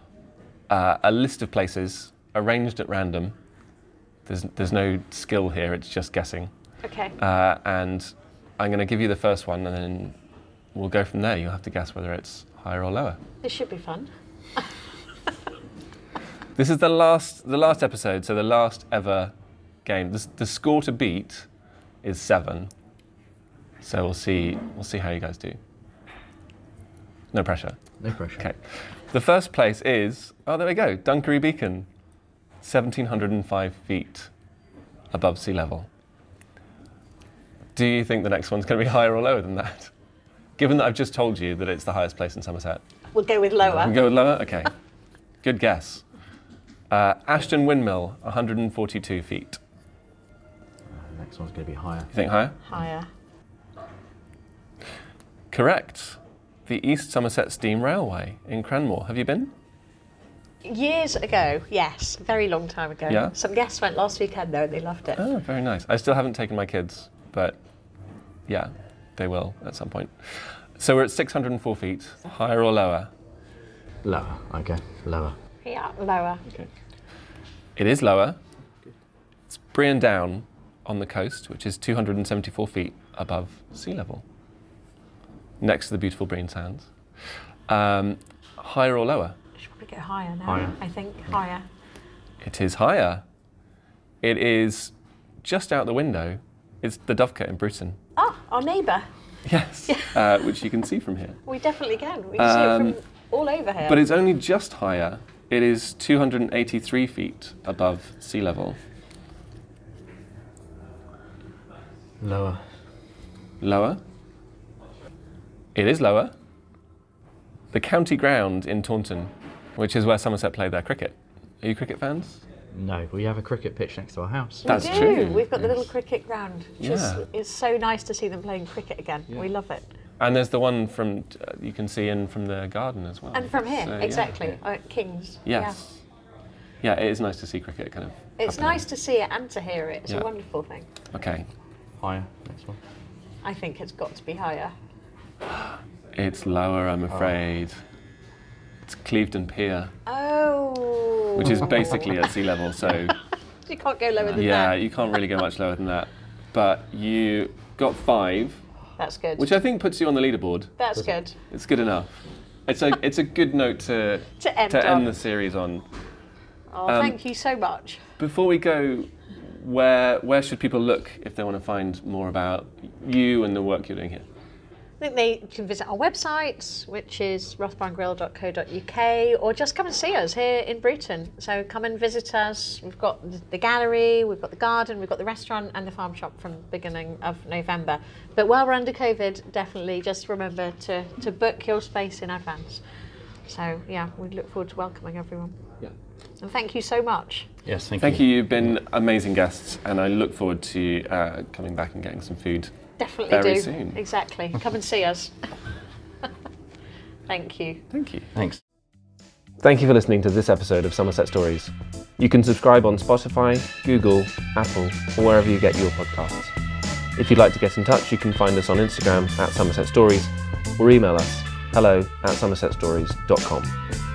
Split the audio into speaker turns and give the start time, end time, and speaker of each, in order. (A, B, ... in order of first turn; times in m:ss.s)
0:00.7-0:03.4 A
0:04.3-0:06.5 A
0:06.8-0:07.2 B
0:07.2-0:10.2 A
0:10.7-0:13.2 A
0:13.4-0:14.1 B
0:16.6-0:19.3 A
0:19.8-0:21.5 A
0:22.0-0:22.7 A
0:23.8-0:25.6 A
0:27.3-0:27.8 A
0:28.0-0:28.4 C
0:28.4-0:31.9 A
0:32.6-0:34.3 A
0:35.1-0:35.9 A
0:37.8-0:39.9 A
0:40.6-0:42.8 A
0:43.1-0:44.0 B
0:43.6-0:44.7 A
0:45.4-0:46.0 A
0:46.9-0:49.6 A
0:50.9-0:52.1 C
0:52.1-0:52.6 A
0:52.6-0:53.1 B
0:55.5-0:59.5 A
1:00.6-1:05.2 B
1:05.2-1:07.6 A
1:08.5-1:13.1 A
1:14.0-1:15.4 C
1:15.6-1:16.4 B
1:17.8-1:18.4 A
1:19.5-1:24.2 A
1:25.6-1:26.9 A
1:27.7-1:29.4 A
1:29.6-1:31.7 B
1:30.5-1:30.8 C
1:32.4-1:33.2 A
1:34.2-1:38.0 A
1:38.2-1:39.1 B
1:39.5-1:41.4 A
1:39.9-1:40.2 B
1:41.5-1:44.0 B
1:42.4-1:43.0 A
1:43.8-1:48.8 A
1:52.2-1:52.6 C
1:53.6-1:54.0 A
1:55.8-1:56.3 A
1:57.7-2:02.4 A
2:02.7-2:05.4 C
2:04.6-2:09.9 B
2:04.7-2:05.7 A
2:06.8-2:07.2 A
2:10.2-2:14.4 A
2:13.3-2:15.8 B
2:15.5-2:16.0 A
2:16.8-2:18.8 A
2:18.4-2:20.9 B
2:21.1-2:21.5 A
2:22.0-2:22.8 C
2:23.4-2:24.7 B
2:26.2-2:27.8 A
2:27.1-2:27.4 C
2:28.9-2:29.9 A
2:30.1-2:32.2 B
2:31.4-2:33.2 A
2:33.7-2:34.8 B
2:34.3-2:38.6 A
2:39.0-2:39.5 B
2:39.4-2:40.8 A
2:40.8-2:41.4 B
2:41.5-2:45.9 A
2:44.4-2:45.2 B
2:46.7-2:48.0 B
2:46.9-2:47.2 A
2:48.2-2:54.3 A
2:55.0-3:12.8 B
3:13.5-3:15.6 B
3:16.4-3:17.5 B
3:17.6-3:18.2 C
3:18.0-3:22.7 A
3:23.0-3:25.5 B
3:23.3-3:24.0 A
3:27.3-3:27.8 B
3:27.9-3:28.3 A
3:28.3-3:28.6 C
3:29.6-3:36.5 A
3:37.2-3:43.8 A